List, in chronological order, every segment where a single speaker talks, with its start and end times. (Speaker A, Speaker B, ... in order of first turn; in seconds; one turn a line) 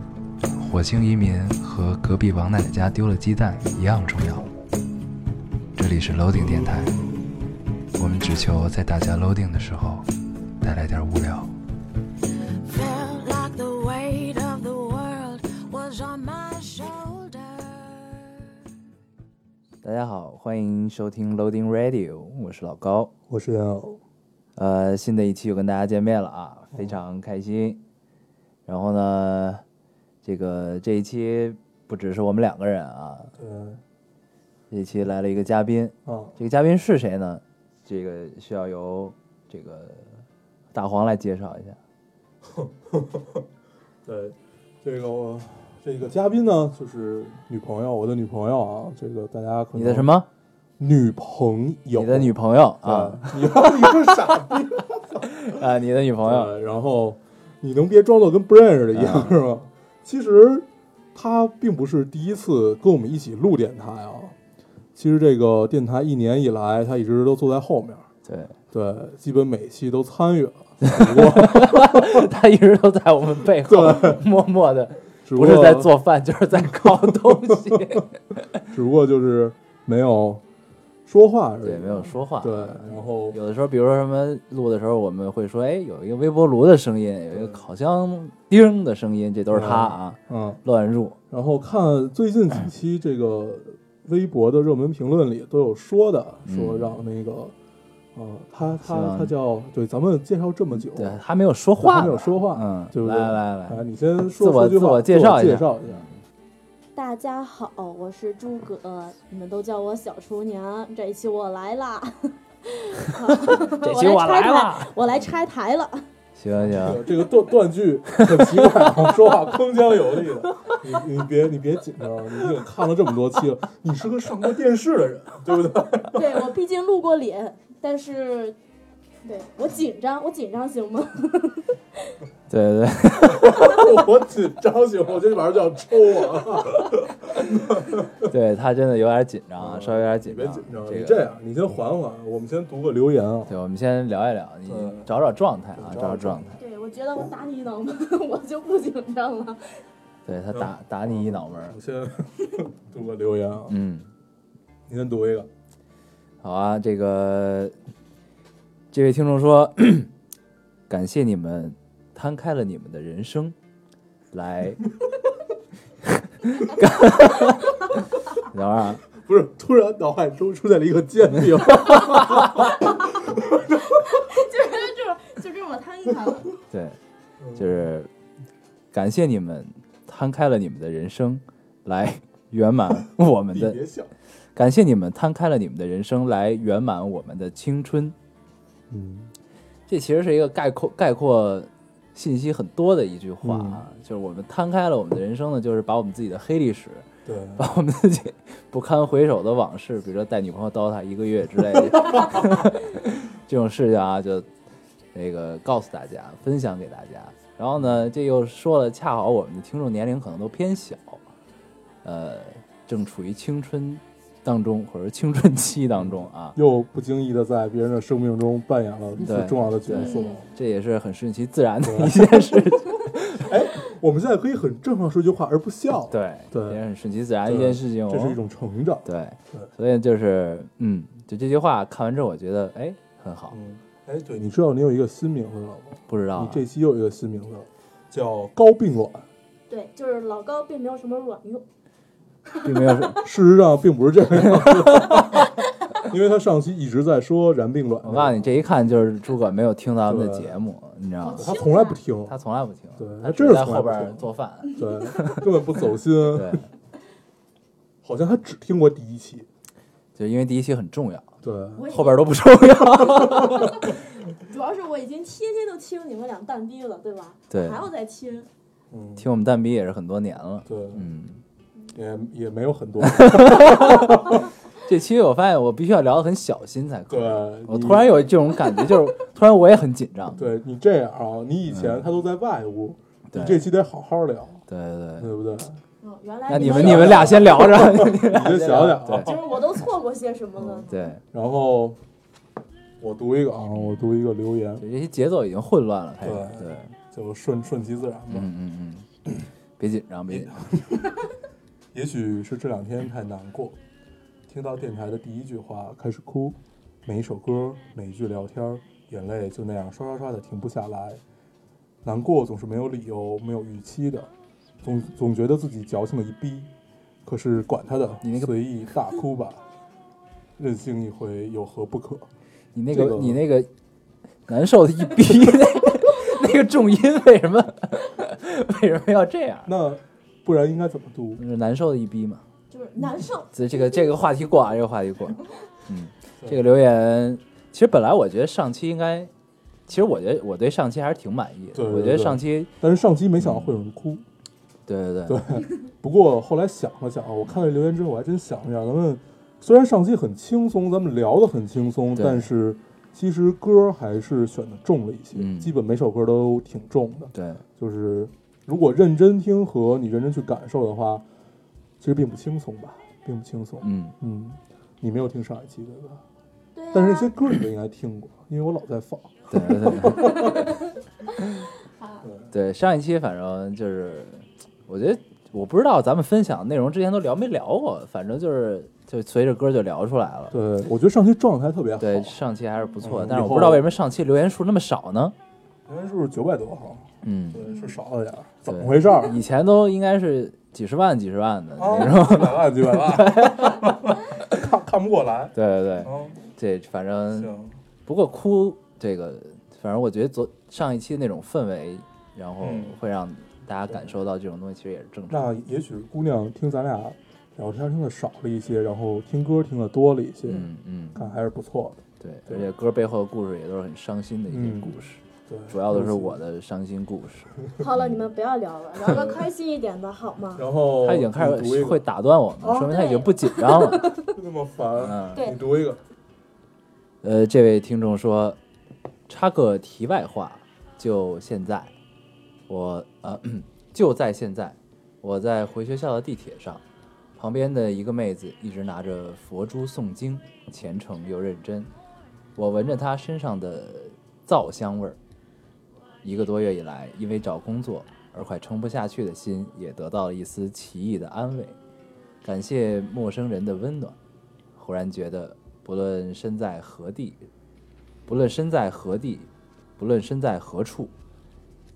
Speaker A: 0.5-4.5
Speaker A: 5.8-7.1
Speaker A: 8.0-10.1
Speaker A: 10.6-11.5
Speaker B: 12.6-18.3
Speaker A: 19.8-23.1
Speaker C: 23.3-24.0
Speaker A: 24.6-27.8
Speaker A: 28.7-29.6
Speaker A: 30.2-33.3
Speaker C: 33.4-33.8
Speaker A: 34.7-41.8
Speaker C: 36.1-36.3
Speaker C: 42.5-43.5
Speaker C: 44.0-50.1
Speaker A: 49.8-50.3
Speaker C: 50.8-55.4
Speaker A: 52.0-54.3
Speaker A: 55.2-56.5
Speaker C: 56.2-64.3
Speaker A: 58.9-59.4
Speaker C: 65.0-68.1
Speaker A: 68.2-68.6
Speaker C: 68.7-72.2
Speaker A: 70.8-78.6
Speaker C: 73.7-74.2
Speaker C: 75.3-75.9
Speaker C: 76.6-78.0
Speaker C: 78.7-80.4
Speaker C: 81.1-83.4
Speaker A: 81.6-91.2
Speaker C: 87.3-87.6
Speaker C: 89.5-90.6
Speaker C: 91.3-97.5
Speaker A: 96.5-97.0
Speaker C: 98.2-101.2
Speaker A: 98.8-99.3
Speaker A: 100.9-103.8
Speaker C: 101.8-106.0
Speaker A: 104.4-106.2
Speaker D: 107.0-116.1
Speaker A: 113.1-115.2
Speaker A: 116.4-117.0
Speaker C: 116.6-126.5
Speaker A: 118.1-118.9
Speaker D: 126.1-128.6
Speaker D: 129.2-132.2
Speaker A: 132.5-133.8
Speaker C: 133.3-138.2
Speaker A: 138.2-141.3
Speaker C: 139.6-143.6
Speaker A: 143.5-146.6
Speaker C: 144.7-145.1
Speaker C: 145.8-146.6
Speaker D: 146.6-149.8
Speaker A: 150.3-151.8
Speaker C: 150.5-153.7
Speaker A: 153.7-154.1
Speaker C: 154.9-155.5
Speaker A: 156.4-157.8
Speaker A: 158.9-160.1
Speaker A: 160.9-163.6
Speaker A: 164.3-164.9
Speaker A: 166.0-169.0
Speaker C: 169.2-174.0
Speaker A: 172.0-172.6
Speaker D: 173.8-176.5
Speaker A: 176.7-177.0
Speaker C: 177.4-177.8
Speaker A: 177.6-178.1
Speaker A: 178.9-183.8
Speaker C: 183.5-184.1
Speaker A: 184.6-188.2
Speaker C: 188.9-189.3
Speaker A: 189.9-204.5
Speaker C: 193.4-193.8
Speaker C: 197.2-197.7
Speaker A: 205.1-211.2
Speaker A: 212.0-216.6
Speaker C: 216.0-220.5
Speaker A: 219.2-223.5
Speaker D: 220.0-220.5
Speaker C: 221.8-226.8
Speaker A: 226.1-228.4
Speaker C: 227.4-229.7
Speaker A: 229.1-233.6
Speaker C: 233.5-239.3
Speaker A: 236.1-236.6
Speaker D: 239.7-241.6
Speaker A: 242.6-243.3
Speaker C: 243.0-248.5
Speaker A: 244.4-245.4
Speaker A: 248.0-251.6
Speaker C: 250.1-250.5
Speaker D: 251.2-252.0
Speaker C: 251.4-252.3
Speaker A: 252.3-255.4
Speaker C: 253.0-256.6
Speaker A: 256.3-256.7
Speaker C: 258.0-259.5
Speaker A: 260.2-261.3
Speaker C: 261.4-261.9
Speaker D: 261.8-262.3
Speaker A: 261.9-263.8
Speaker D: 263.1-268.5
Speaker A: 267.5-267.9
Speaker C: 268.9-269.3
Speaker A: 269.2-271.4
Speaker C: 270.7-271.1
Speaker C: 271.9-274.5
Speaker A: 273.0-280.4
Speaker C: 277.1-278.2
Speaker C: 280.4-284.6
Speaker A: 281.7-282.0
Speaker A: 283.3-283.7
Speaker A: 284.7-285.3
Speaker C: 285.2-285.8
Speaker D: 286.0-287.6
Speaker A: 286.5-289.4
Speaker C: 286.5-289.4
Speaker D: 289.2-290.9
Speaker C: 290.6-292.0
Speaker A: 290.9-291.2
Speaker C: 293.0-294.8
Speaker A: 293.8-294.1
Speaker A: 294.8-296.9
Speaker C: 296.2-298.5
Speaker A: 298.3-299.1
Speaker A: 299.8-300.8
Speaker C: 300.3-301.3
Speaker C: 301.9-303.8
Speaker C: 304.5-311.2
Speaker C: 312.0-314.3
Speaker C: 314.8-316.7
Speaker C: 317.2-319.6
Speaker A: 318.2-318.5
Speaker C: 320.6-322.3
Speaker A: 322.8-323.7
Speaker C: 322.9-323.4
Speaker A: 324.5-329.7
Speaker C: 329.7-331.4
Speaker A: 331.4-332.4
Speaker D: 332.7-334.2
Speaker A: 333.5-339.3
Speaker A: 339.9-342.7
Speaker C: 341.8-344.2
Speaker A: 343.4-343.8
Speaker A: 344.9-345.4
Speaker C: 345.3-361.2
Speaker A: 352.1-352.5
Speaker A: 355.3-355.7
Speaker A: 357.3-357.6
Speaker C: 362.0-366.2
Speaker A: 363.8-364.2
Speaker D: 366.8-367.3
Speaker C: 366.9-370.7
Speaker A: 369.5-370.7
Speaker A: 372.5-380.6
Speaker C: 380.5-382.4
Speaker A: 382.0-385.4
Speaker C: 383.0-383.9
Speaker C: 385.9-389.4
Speaker A: 387.2-387.7
Speaker A: 388.7-393.9
Speaker C: 391.8-396.4
Speaker A: 395.6-397.5
Speaker C: 397.4-397.8
Speaker A: 398.1-405.4
Speaker C: 402.6-402.9
Speaker C: 405.3-412.7
Speaker A: 410.5-411.2
Speaker A: 412.2-418.2
Speaker C: 414.5-416.4
Speaker D: 417.8-420.6
Speaker C: 419.1-419.4
Speaker C: 420.6-422.0
Speaker A: 421.0-424.2
Speaker D: 422.6-424.4
Speaker C: 424.3-426.0
Speaker A: 425.0-425.5
Speaker A: 427.2-428.6
Speaker A: 429.3-431.9
Speaker A: 432.7-436.8
Speaker A: 437.4-441.9
Speaker A: 442.6-445.2
Speaker A: 446.2-451.8
Speaker A: 452.4-454.2
Speaker A: 454.8-457.5
Speaker A: 458.3-461.1